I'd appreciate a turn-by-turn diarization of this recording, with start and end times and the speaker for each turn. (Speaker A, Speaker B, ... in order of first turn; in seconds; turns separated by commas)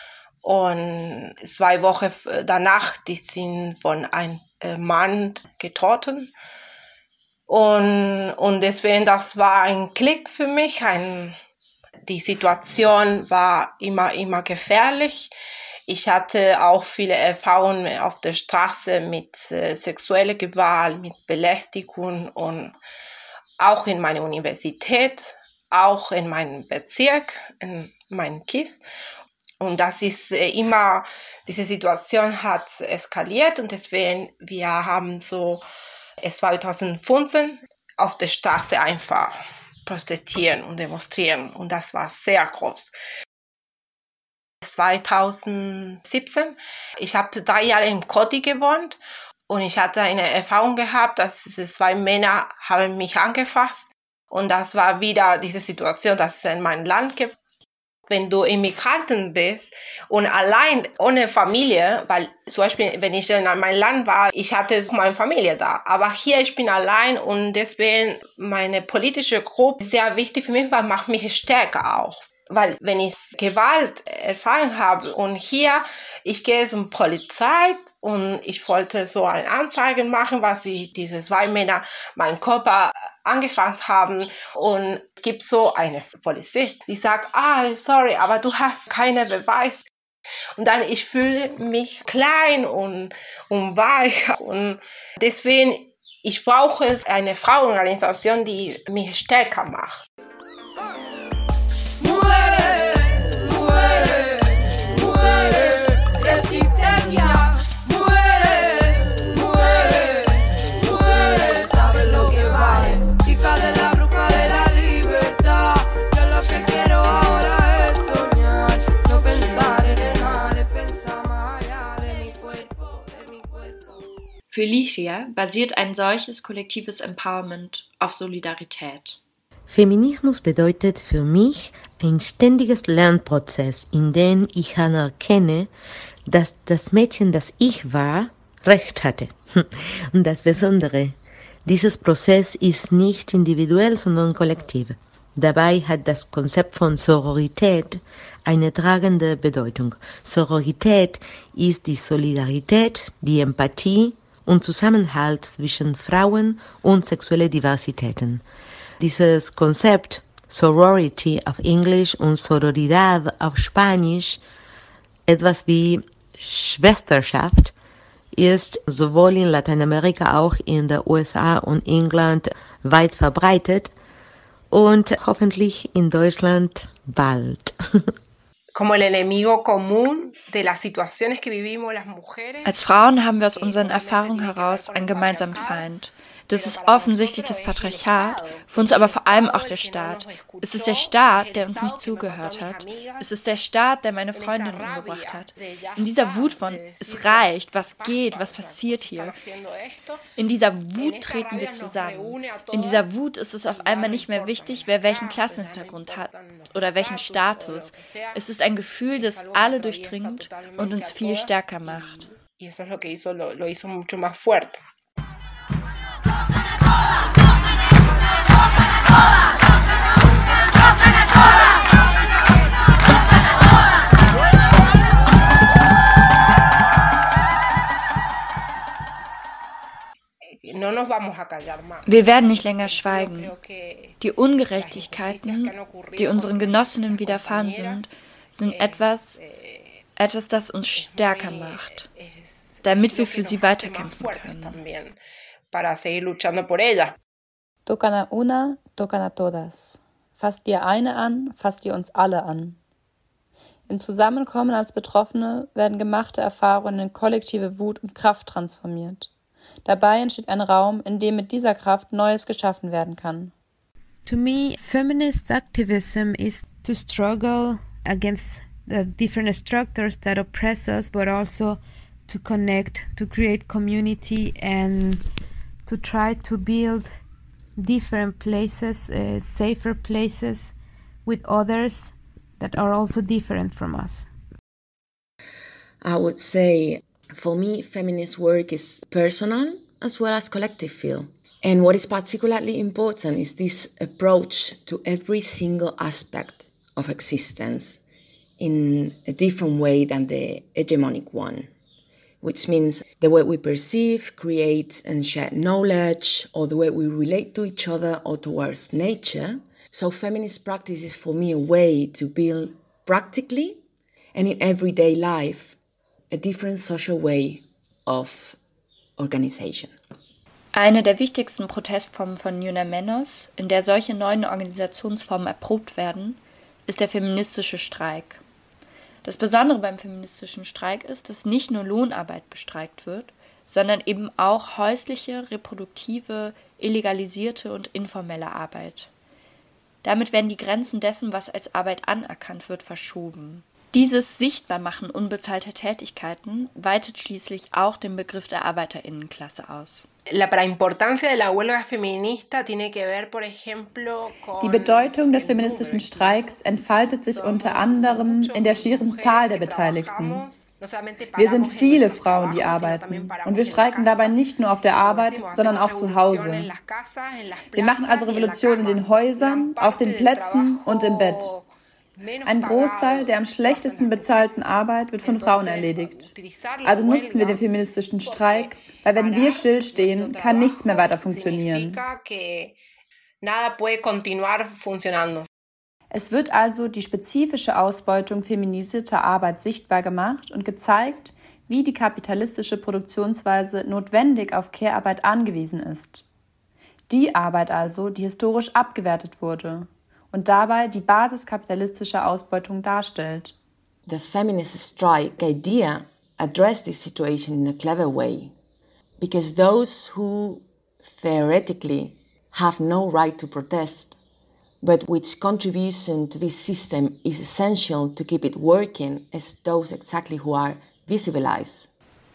Speaker A: 0.4-6.3, Speaker A: 7.5-11.4, Speaker A: 12.1-15.3, Speaker A: 15.9-22.7, Speaker A: 23.6-28.8, Speaker A: 29.6-35.6, Speaker A: 36.2-39.3, Speaker A: 39.9-42.9, Speaker A: 44.6-49.0, Speaker A: 49.5-57.3, Speaker A: 58.1-89.9, Speaker A: 90.6-100.0, Speaker B: 124.5-129.2, Speaker C: 129.7-135.7, Speaker C: 136.3-158.4, Speaker C: 159.0-164.4, Speaker C: 165.3-167.7, Speaker C: 168.3-173.9, Speaker C: 174.7-178.1, Speaker A: 178.8-182.7, Speaker B: 182.7-199.3, Speaker A: 183.6-185.9, Speaker A: 186.5-193.3, Speaker A: 194.3-200.2, Speaker B: 200.4-212.3, Speaker A: 201.0-203.1, Speaker A: 203.7-208.4, Speaker A: 209.1-214.8, Speaker A: 230.4-234.2, Speaker B: 232.1-233.5, Speaker B: 234.2-239.4, Speaker A: 234.7-238.1, Speaker A: 238.7-239.9, Speaker B: 240.2-242.1, Speaker A: 241.0-245.2, Speaker B: 242.8-244.8, Speaker A: 245.7-247.2, Speaker D: 247.9-252.8, Speaker D: 253.9-259.3, Speaker D: 259.9-263.5, Speaker E: 264.3-275.2, Speaker E: 275.9-277.1, Speaker E: 277.8-284.3, Speaker F: 286.0-298.0, Speaker F: 298.6-301.7, Speaker F: 302.4-313.8, Speaker F: 314.3-315.8, Speaker F: 316.3-318.6, Speaker F: 319.2-319.9, Speaker B: 320.7-328.4, Speaker B: 329.2-339.1, Speaker B: 340.0-350.1, Speaker A: 350.3-356.5, Speaker D: 354.6-360.4, Speaker A: 357.3-364.4, Speaker D: 361.4-366.7, Speaker A: 365.0-374.7, Speaker D: 367.8-371.5, Speaker D: 372.5-376.3, Speaker A: 375.2-377.6, Speaker D: 376.9-382.0, Speaker A: 378.2-382.8, Speaker A: 383.4-385.5, Speaker D: 386.1-396.3, Speaker D: 397.1-403.6, Speaker F: 404.1-408.5, Speaker F: 409.2-414.2, Speaker F: 414.8-421.9